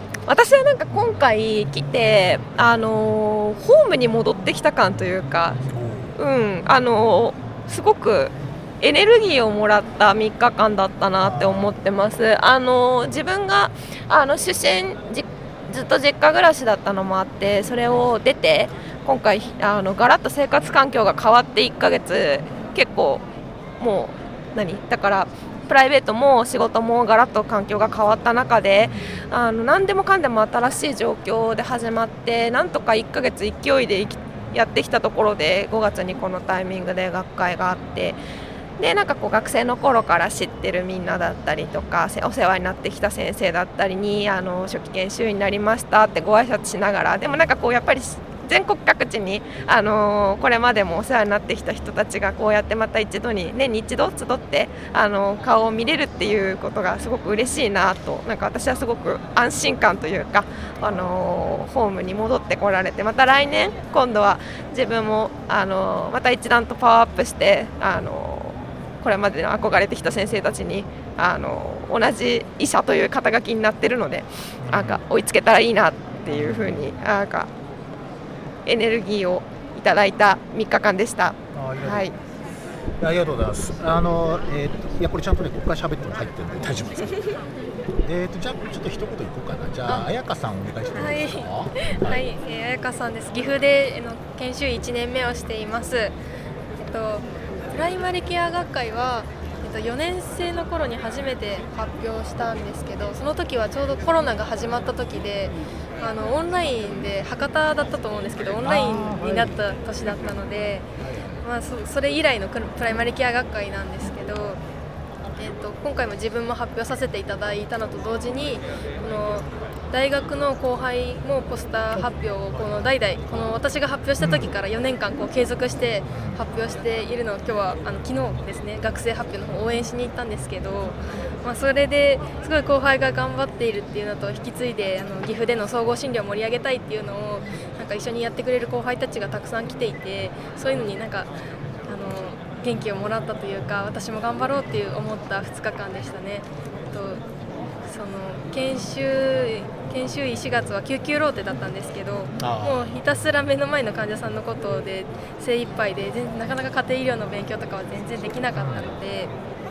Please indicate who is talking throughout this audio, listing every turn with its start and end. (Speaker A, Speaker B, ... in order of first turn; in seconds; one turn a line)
Speaker A: 0.3-5.6
Speaker B: 5.7-6.2
Speaker A: 6.2-23.2
Speaker B: 11.2-11.7
Speaker A: 23.8-38.2
Speaker B: 28.8-29.2
Speaker A: 38.8-77.5
Speaker B: 74.6-75.0
Speaker B: 76.3-76.8
Speaker A: 78.7-82.1
Speaker B: 81.5-82.1
Speaker B: 83.0-87.2
Speaker B: 88.0-92.3
Speaker C: 90.9-96.2
Speaker C: 96.8-110.9
Speaker B: 108.6-109.6
Speaker B: 111.0-111.4
Speaker C: 111.4-114.6
Speaker C: 115.3-141.3
Speaker B: 121.9-123.6
Speaker B: 124.2-124.5
Speaker B: 126.1-126.4
Speaker C: 141.9-147.2
Speaker C: 147.8-159.3
Speaker B: 152.4-153.0
Speaker B: 158.6-158.9